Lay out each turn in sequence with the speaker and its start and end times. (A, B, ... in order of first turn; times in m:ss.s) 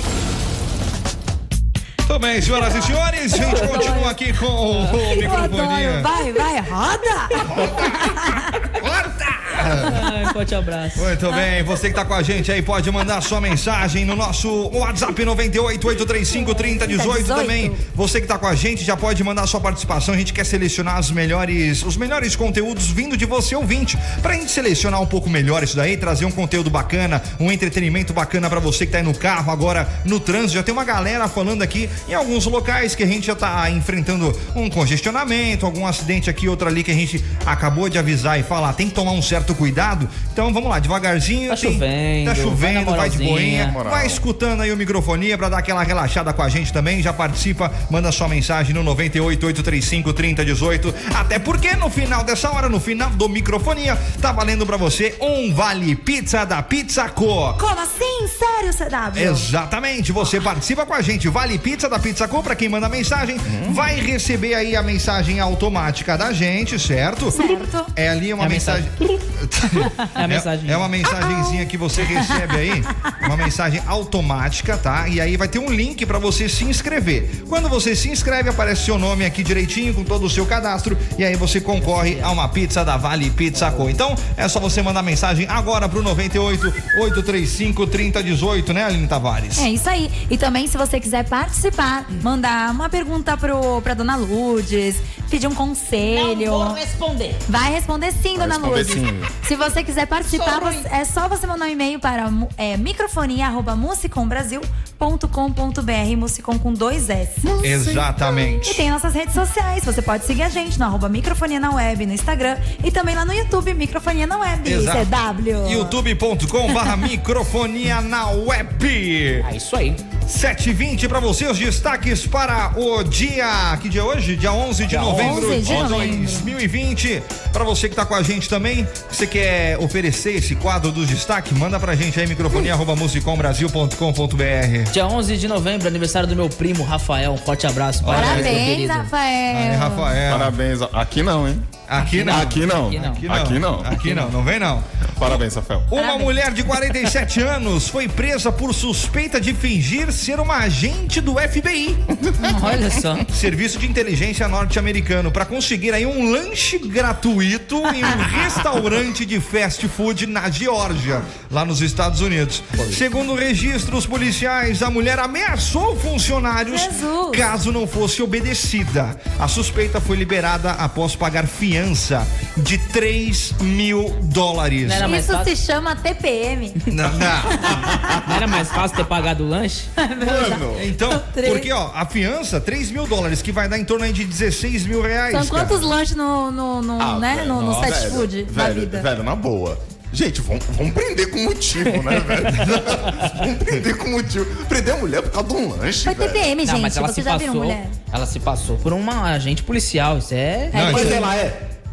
0:02.1-0:06.1 A
0:03.3-0:04.2 B
0:05.0-0:08.7 B
0:07.4-0:10.1 A
0:09.8-0:11.1 C
0:09.8-0:10.1 B
0:11.0-0:57.6 A
0:11.3-0:11.7 B
0:16.3-0:17.8 B
0:41.5-0:43.8 C
0:43.6-0:44.2 D
0:57.6-0:59.5 B
0:59.1-1:29.7 A
1:03.4-1:03.8 D
1:07.3-1:07.9 B
1:08.4-1:08.9 C
1:10.1-1:10.9 C
1:11.1-1:13.1 B
1:21.8-1:22.4 C
1:23.5-1:23.9 C
1:29.6-1:36.8 B
1:36.0-1:37.4 C
1:37.5-1:47.5 B
1:38.4-1:39.3 D
1:40.3-1:40.8 C
1:47.4-1:48.1 D
1:47.6-1:48.8 A
1:48.2-1:56.0 B
1:54.6-1:59.5 A
1:59.4-2:00.0 C
2:00.3-2:14.9 A
2:04.9-2:06.1 C
2:05.1-2:06.6 B
2:14.9-2:19.1 C
2:18.0-2:18.7 A
2:18.1-2:20.2 B
2:19.5-2:20.6 A
2:20.3-2:23.9 D
2:21.9-2:32.1 A
2:22.0-2:23.3 C
2:23.9-2:24.3 C
2:25.2-2:25.9 D
2:26.0-2:26.4 B
2:32.2-2:33.2 D
2:32.4-2:33.3 C
2:33.3-2:55.2 A
2:46.7-2:47.5 B
2:54.8-2:55.5 C
2:55.0-2:56.8 B
2:56.9-2:58.1 A
2:57.6-2:58.2 B
2:58.0-2:58.8 D
2:58.2-2:59.9 C
3:00.0-3:01.7 B
3:00.2-3:00.9 D
3:00.7-3:05.9 A
3:05.3-3:09.1 B
3:07.0-3:16.5 D
3:07.6-3:07.9 C
3:11.9-3:13.2 C
3:12.5-3:13.2 A
3:16.0-3:18.0 B
3:16.6-3:20.8 C
3:20.7-3:21.3 B
3:20.7-3:21.2 A
3:20.8-3:21.6 D